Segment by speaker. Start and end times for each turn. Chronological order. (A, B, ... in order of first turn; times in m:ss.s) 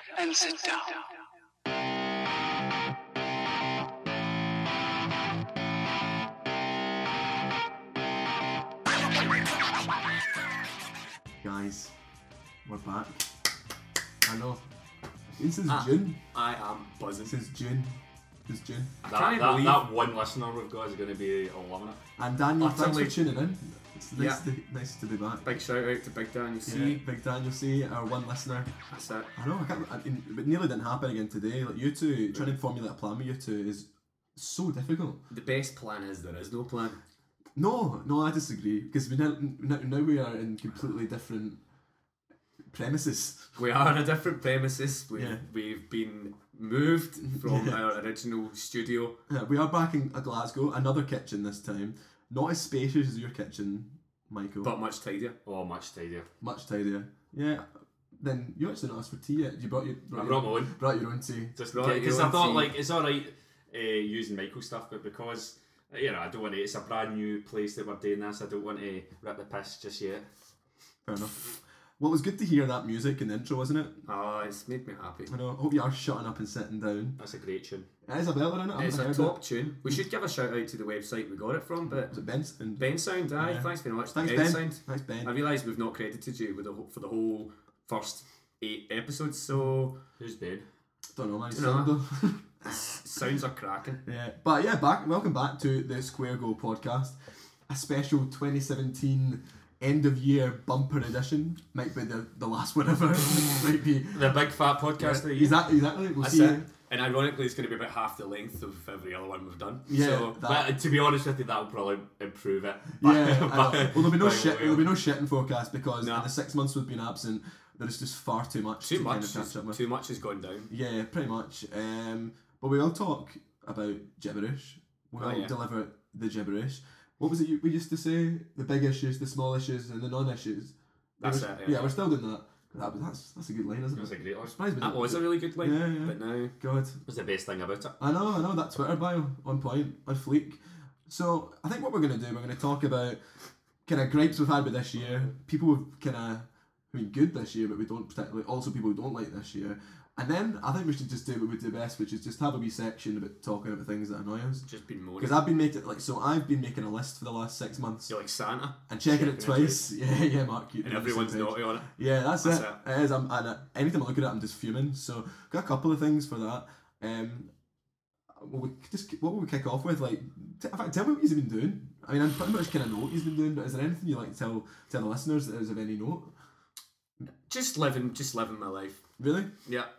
0:11.4-0:11.9 A
0:12.6-0:13.2 A
0:14.2-0:14.6 A
0:15.4-0:16.2 A
0:15.7-0:17.4 B
0:17.2-0:18.9 A
0:19.0-0:19.9 B
0:19.1-0:22.0 C
0:22.2-0:25.4 A
0:22.6-0:23.3 B
0:24.1-0:24.4 B
0:25.4-0:27.0 B
0:26.6-0:28.7 A
0:28.9-0:29.3 B
0:29.4-0:35.2 A
0:35.3-0:37.0 B
0:37.6-0:41.6 A
0:42.7-0:43.6 A
0:43.6-0:49.2 B
0:47.4-0:47.8 A
0:49.3-0:54.8 A
0:54.6-0:55.4 B
0:55.5-0:56.3 C
0:56.4-0:57.7 A
0:58.2-1:01.6 A
1:00.1-1:00.7 C
1:01.6-1:10.3 C
1:01.7-1:02.7 B
1:11.0-1:14.0 A
1:14.1-1:15.3 B
1:15.3-1:17.2 A
1:17.2-1:17.9 C
1:18.1-1:19.4 A
1:18.8-1:22.1 B
1:22.0-1:22.8 A
1:22.8-1:30.0 B
1:23.4-1:25.3 A
1:30.2-1:30.7 C
1:31.1-1:33.0 A
1:31.5-1:31.9 B
1:32.7-1:34.0 B
1:34.0-1:44.4 A
1:44.1-1:45.6 C
1:45.0-1:46.7 A
1:46.2-1:50.4 B
1:49.9-1:50.8 A
1:50.4-1:55.0 C
1:53.0-1:59.8 A
1:56.0-1:56.3 B
1:58.8-2:00.7 B
2:00.7-2:17.0 A
2:05.2-2:05.6 B
2:11.2-2:12.0 B
2:13.9-2:14.6 C
2:14.8-2:16.5 B
2:17.0-2:18.0 C
2:18.0-2:23.2 A
2:23.8-2:34.7 A
2:34.7-2:35.4 B
2:35.2-2:38.1 A
2:38.1-2:38.8 B
2:38.9-2:47.5 A
2:39.1-2:39.8 C
2:40.8-2:42.8 B
2:48.4-2:56.3 A
2:57.5-2:59.0 B
2:59.2-2:59.5 A
2:59.7-2:59.9 B